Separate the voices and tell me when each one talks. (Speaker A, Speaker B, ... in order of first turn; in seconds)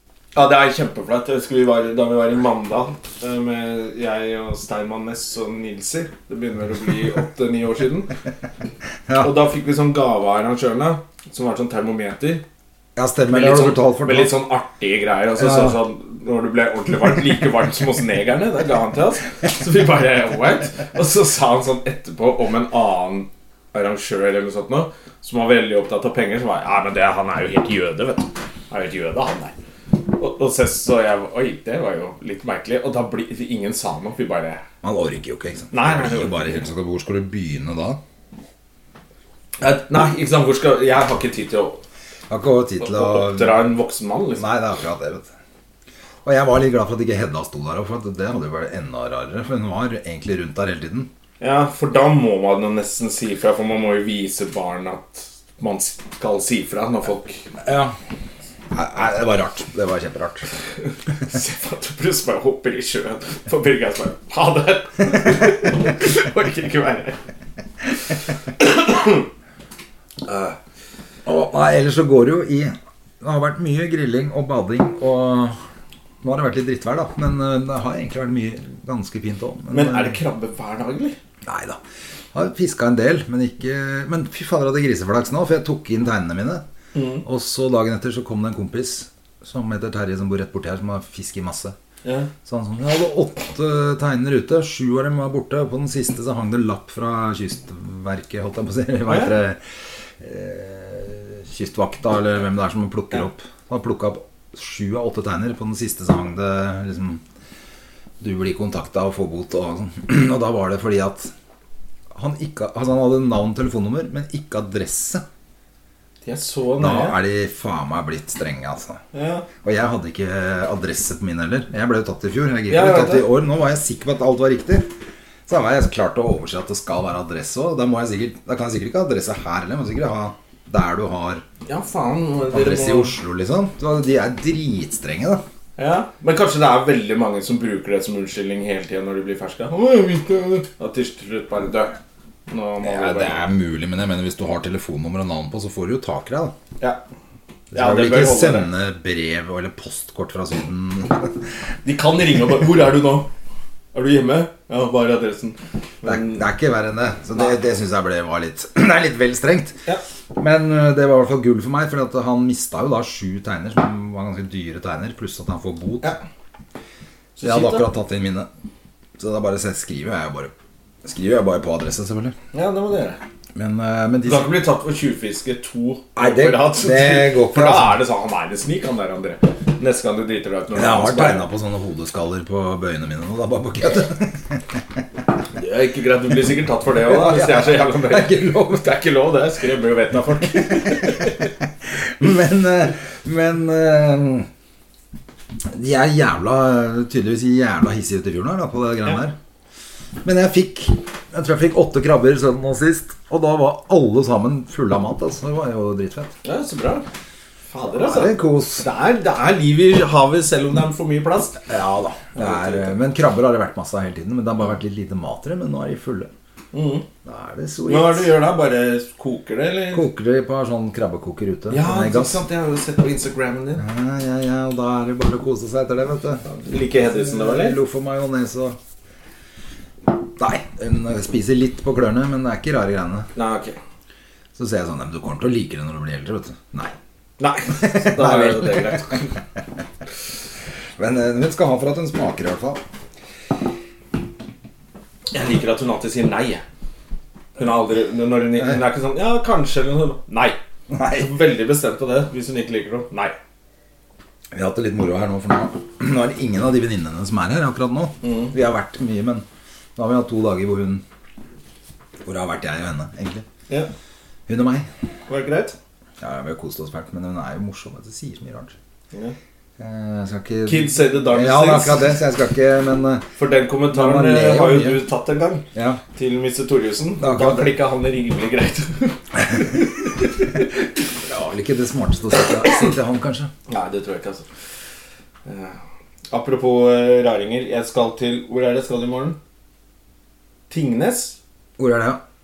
Speaker A: 0.3-8.1, 9.2-12.4, 13.3-29.5, 30.1-34.6, 35.7-36.6, 39.6-41.8, 42.8-44.5, 51.4-57.4, 61.2-67.2, 68.6-69.3, 70.2-70.5, 79.7-81.2, 86.9-87.2, 92.0-92.3, 99.1-99.3, 116.2-117.2, 119.1-119.5, 122.7-123.3, 131.7-133.2, 135.8-141.9, 142.5-143.5, 147.7-148.7, 151.8-153.3, 153.9-156.4, 167.4-167.9, 172.5-173.2, 174.2-181.4, 185.5-191.5, 206.4-207.0, 207.7-211.6, 212.3-213.0, 216.7-217.0, 217.8-220.1, 221.7-223.8, 226.4-227.8, 233.3-233.8, 237.4-239.3, 245.3-246.6, 247.6-250.6, 251.1-253.3, 258.2-258.5, 265.3-265.8, 270.6-272.2, 273.4-280.6, 283.7-284.5, 285.4-285.8, 286.3-289.4, 290.7-291.4
Speaker B: 9.1-9.3, 12.9-14.3, 15.4-15.8, 34.8-38.0, 42.3-43.6, 44.4-45.3, 46.2-51.1, 57.6-57.9, 58.7-60.5, 71.2-75.6, 76.2-80.2, 81.4-81.8, 82.3-86.6, 87.2-91.7, 92.4-99.6, 100.2-107.2, 108.2-111.3, 112.1-115.2, 116.8-119.0, 119.6-124.9, 125.5-131.4, 132.5-135.4, 142.8-146.5, 147.7-151.4, 156.0-159.8, 160.3-166.2, 167.4-168.5, 169.2-170.5, 171.0-172.3, 173.5-174.6, 176.2-178.0, 180.7-184.6, 187.0-188.8, 191.0-191.3, 191.9-194.5, 195.7-199.3, 200.2-206.3, 207.9-208.8, 211.7-216.3, 217.2-218.3, 219.9-222.4, 223.8-226.4, 227.0-228.8, 230.3-233.3, 234.5-236.9, 237.8-239.2, 241.0-242.8, 250.9-251.3, 254.5-259.4, 259.9-261.0, 262.2-263.4, 264.5-264.9, 266.2-268.7, 269.8-273.3, 273.9-275.0, 275.7-276.0, 277.2-277.7, 281.2-283.5, 291.8-292.2